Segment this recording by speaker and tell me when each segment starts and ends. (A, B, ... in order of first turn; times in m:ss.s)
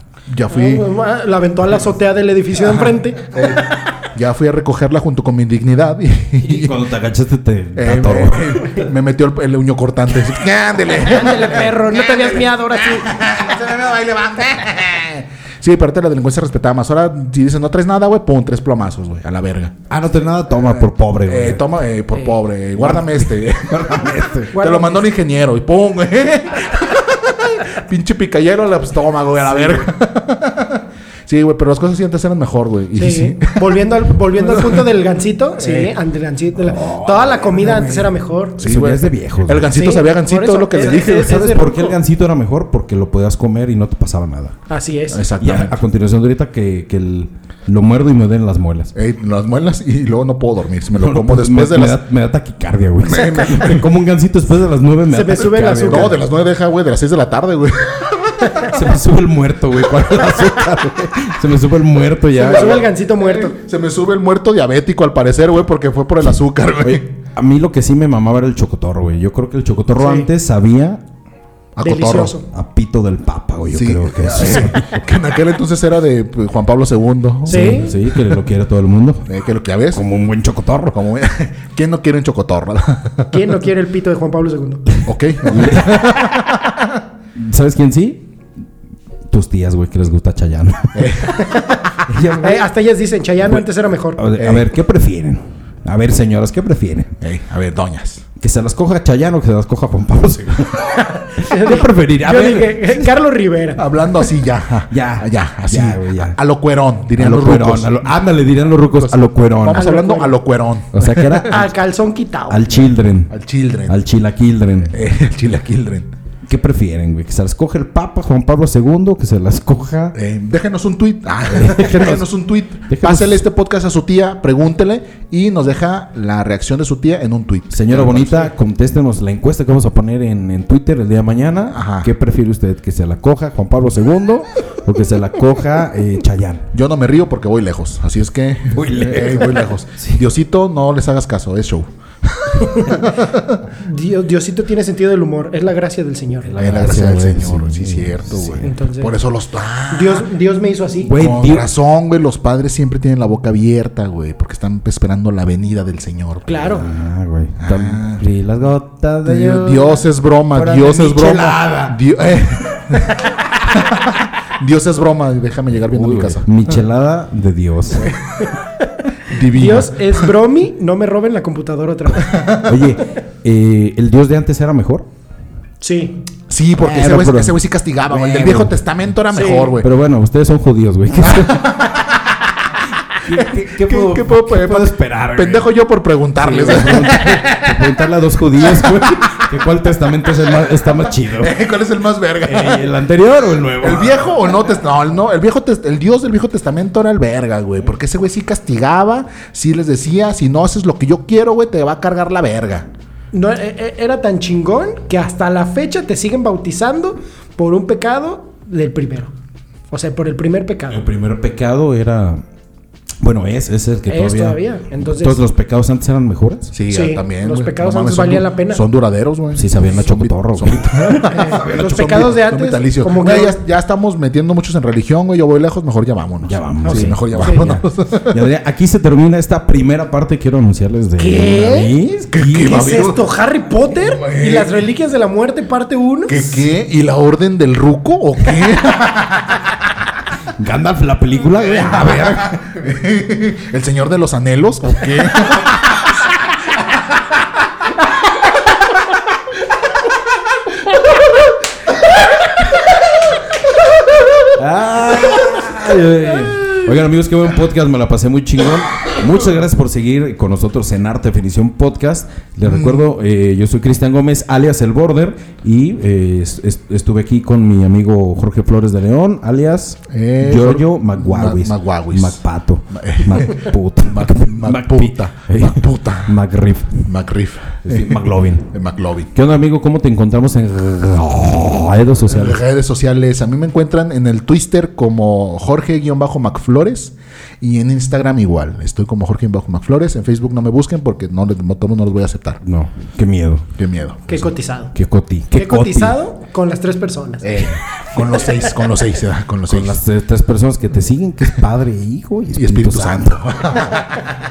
0:00.3-0:00.9 A
0:00.5-0:03.6 B
0:02.6-0:06.8 A
0:06.4-0:08.7 C
0:07.8-0:19.8 A
0:11.0-0:13.2 B
0:19.9-0:21.7 C
0:20.7-0:33.7 A
0:22.8-0:24.6 C
0:24.5-0:25.0 B
0:33.0-0:38.6 B
0:34.3-0:34.9 A
0:35.6-0:36.0 A
0:36.6-0:38.0 C
0:37.6-0:38.0 A
0:38.6-0:41.5 A
0:38.6-0:39.7 C
0:39.7-0:42.0 B
0:40.8-0:44.6 C
0:44.7-0:45.3 B
0:45.1-0:45.8 A
0:45.4-0:48.9 C
0:48.9-0:52.0 A
0:51.0-0:56.2 C
0:53.0-0:53.9 A
0:55.1-0:56.2 B
0:55.8-0:58.7 A
0:58.6-1:02.8 C
1:02.4-1:03.6 B
1:02.4-1:07.1 A
1:06.8-1:11.0 C
1:10.0-1:10.3 B
1:11.8-1:12.4 A
1:11.8-1:12.4 B
1:12.4-1:15.0 C
1:13.7-1:18.3 A
1:17.5-1:19.3 C
1:17.5-1:17.9 B
1:19.3-1:20.0 A
1:19.9-1:21.0 C
1:20.9-1:23.4 A
1:23.3-1:25.0 B
1:25.0-1:27.0 A
1:25.4-1:26.4 C
1:27.4-1:28.2 C
1:29.3-1:31.4 C
1:30.9-1:32.0 A
1:31.4-1:31.8 B
1:32.1-1:32.6 C
1:32.4-1:34.2 B
1:34.2-1:37.2 C
1:34.4-1:34.7 A
1:37.2-1:38.2 A
1:38.4-1:43.1 C
1:41.2-1:43.9 B
1:43.8-1:48.2 A
1:44.9-1:46.4 C
1:47.2-1:49.9 C
1:48.9-1:51.5 A
1:49.7-1:50.4 B
1:50.9-1:51.7 C
1:51.5-1:52.8 B
1:52.5-1:53.3 C
1:53.3-1:54.0 A
1:53.9-1:54.9 C
1:54.9-1:56.1 A
1:56.5-2:00.2 C
2:00.2-2:08.5 A
2:01.5-2:02.2 C
2:02.9-2:03.4 C
2:07.7-2:16.7 C
2:11.7-2:12.1 A
2:16.7-2:23.7 A
2:18.7-2:20.2 C
2:23.7-2:26.6 B
2:26.5-2:28.7 C
2:26.6-2:30.3 A
2:28.6-2:29.2 B
2:29.9-2:31.2 B
2:31.0-2:31.7 C
2:31.1-2:36.9 A
2:36.5-2:36.9 B
2:36.8-2:42.0 C
2:37.6-2:38.2 A
2:39.2-2:46.5 A
2:45.9-2:48.2 C
2:49.3-2:50.3 A
2:49.3-2:52.5 B
2:52.2-2:52.8 A
2:52.6-2:55.1 C
2:55.8-2:56.2 B
2:56.5-2:59.9 A
2:56.8-2:57.6 C
2:58.1-2:58.8 C
2:59.3-2:59.8 B
2:59.8-3:01.9 C
3:01.2-3:02.3 A
3:03.1-3:05.7 C
3:03.3-3:07.6 A
3:06.4-3:11.5 C
3:11.3-3:12.9 A
3:12.5-3:14.2 C
3:13.8-3:22.9 A
3:23.3-3:29.3 B
3:29.9-3:31.0 B
3:30.9-3:32.4 C
3:33.2-3:36.7 C
3:34.1-3:35.4 B
3:36.7-3:48.4 A
3:36.9-3:38.8 B
3:39.6-3:42.2 C
3:41.3-3:43.6 B
3:46.4-3:53.0 C
3:46.8-3:47.7 B
3:51.2-3:51.9 B
3:52.3-3:53.2 A
3:52.5-3:56.6 B
3:54.0-3:54.8 A
3:56.3-3:59.7 A
4:00.6-4:02.5 C
4:01.6-4:06.1 A
4:05.0-4:05.6 C
4:14.5-4:37.1 C
4:22.7-4:23.0 A
4:30.1-4:32.4 A
4:32.9-4:36.4 A
4:37.0-4:39.3 A
4:37.8-4:38.7 C
4:39.4-4:42.6 C
4:42.3-4:52.6 A
4:52.6-4:53.7 C
4:53.8-4:54.4 A
4:54.3-4:54.9 B
4:55.0-4:56.2 C
4:55.5-4:57.6 B
4:57.4-5:00.0 A
4:59.7-5:04.0 C
5:02.5-5:04.3 A